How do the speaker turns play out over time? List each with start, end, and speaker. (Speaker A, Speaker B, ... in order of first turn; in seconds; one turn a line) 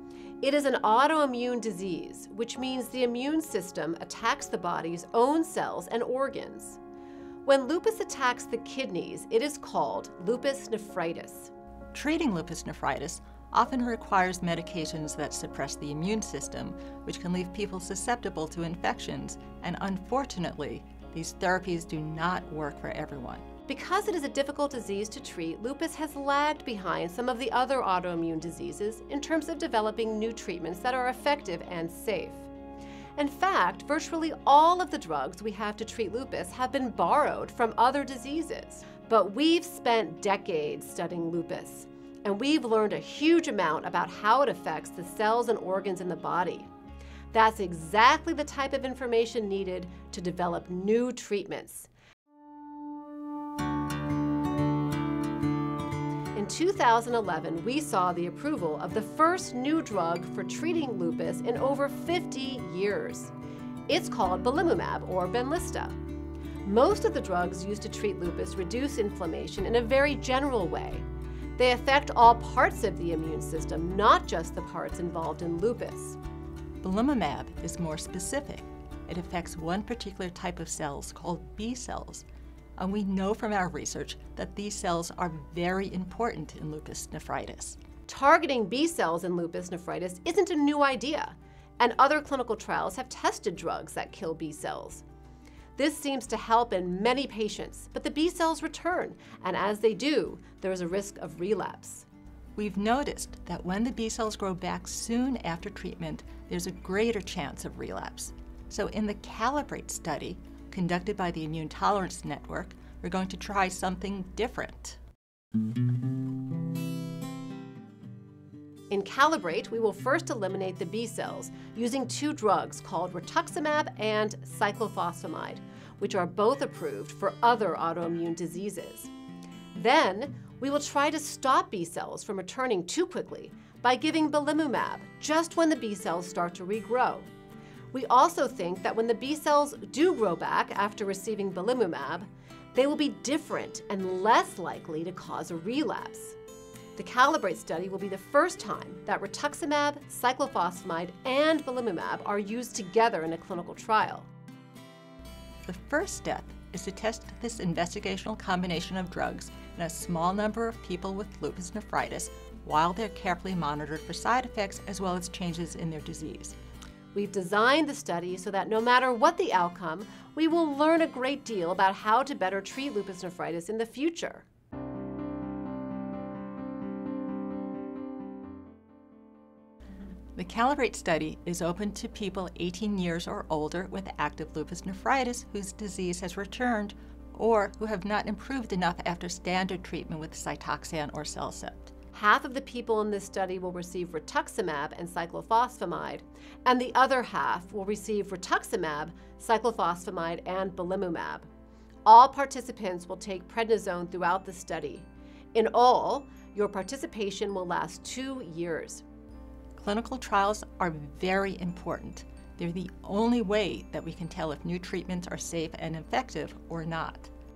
Speaker A: 0.4-6.8
Speaker A: 7.5-11.5
Speaker B: 11.9-23.5
Speaker A: 23.7-32.5
Speaker A: 33.2-46.7
Speaker A: 47.3-51.9
Speaker A: 56.3-63.3
Speaker A: 63.9-66.0
Speaker A: 66.6-76.2
Speaker B: 76.8-82.2
Speaker B: 82.8-87.8
Speaker A: 88.1-95.0
Speaker A: 95.8-102.0
Speaker B: 102.6-115.0
Speaker A: 118.9-129.1
Speaker A: 129.7-137.3
Speaker A: 137.9-146.3
Speaker A: 146.9-154.3
Speaker B: 155.7-166.6
Speaker A: 167.1-174.5
Speaker B: 180.3-191.9
Speaker A: 192.1-201.5
Speaker A: 202.1-209.0
Speaker B: 209.8-217.3